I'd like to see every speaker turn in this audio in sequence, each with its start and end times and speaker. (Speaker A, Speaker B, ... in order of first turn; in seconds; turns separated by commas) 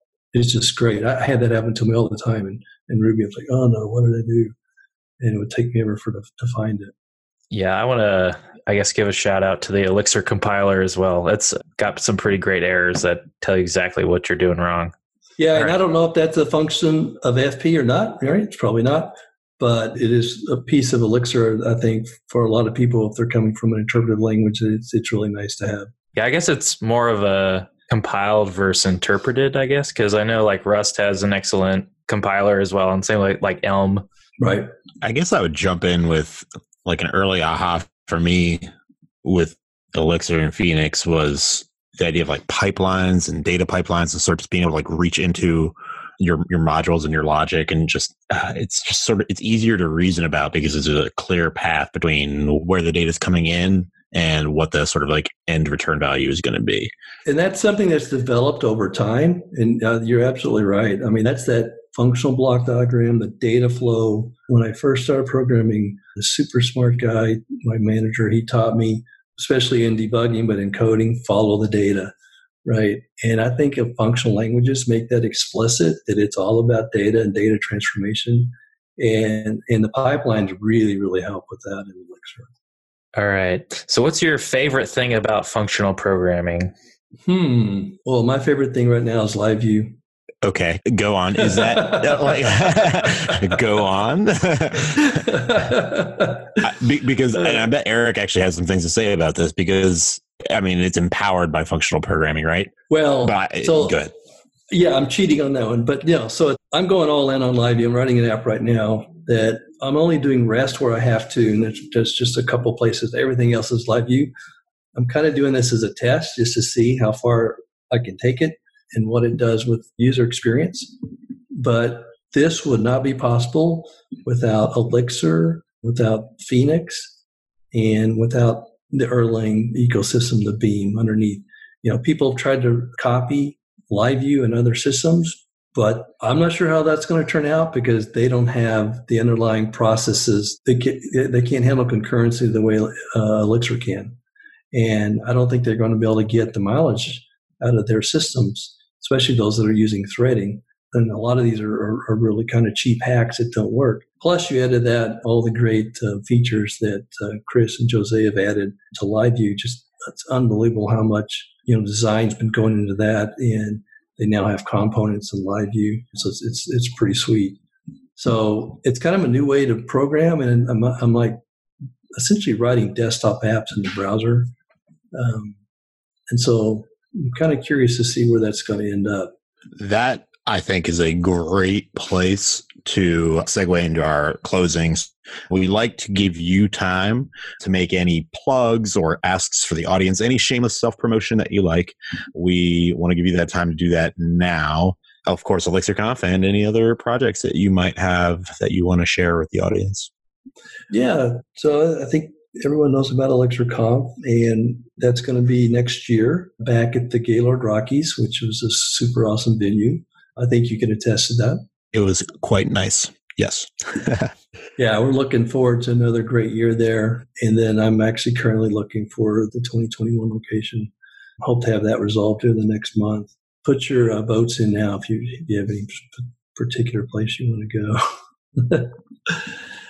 Speaker A: 0.3-4.5, Speaker A: 5.2-6.9, Speaker B: 7.5-14.9, Speaker A: 15.4-25.9, Speaker B: 26.1-34.0, Speaker A: 34.4-34.7, Speaker C: 35.0-38.6, Speaker C: 39.2-56.9, Speaker A: 57.2-72.1, Speaker A: 72.6-82.5, Speaker B: 83.1-86.7, Speaker A: 87.2-90.0, Speaker C: 90.4-95.3, Speaker A: 91.5-92.8, Speaker A: 95.0-96.6, Speaker C: 96.6-102.7, Speaker A: 102.9-104.0, Speaker C: 103.2-104.1, Speaker A: 104.7-114.3, Speaker A: 114.9-120.9, Speaker A: 121.5-127.2, Speaker A: 127.7-144.2, Speaker A: 144.7-167.6, Speaker A: 168.2-171.4, Speaker A: 172.2-174.5, Speaker A: 175.1-175.6, Speaker A: 176.3-179.3, Speaker C: 179.8-200.1, Speaker A: 200.9-211.6, Speaker C: 211.9-214.3, Speaker A: 214.8-229.5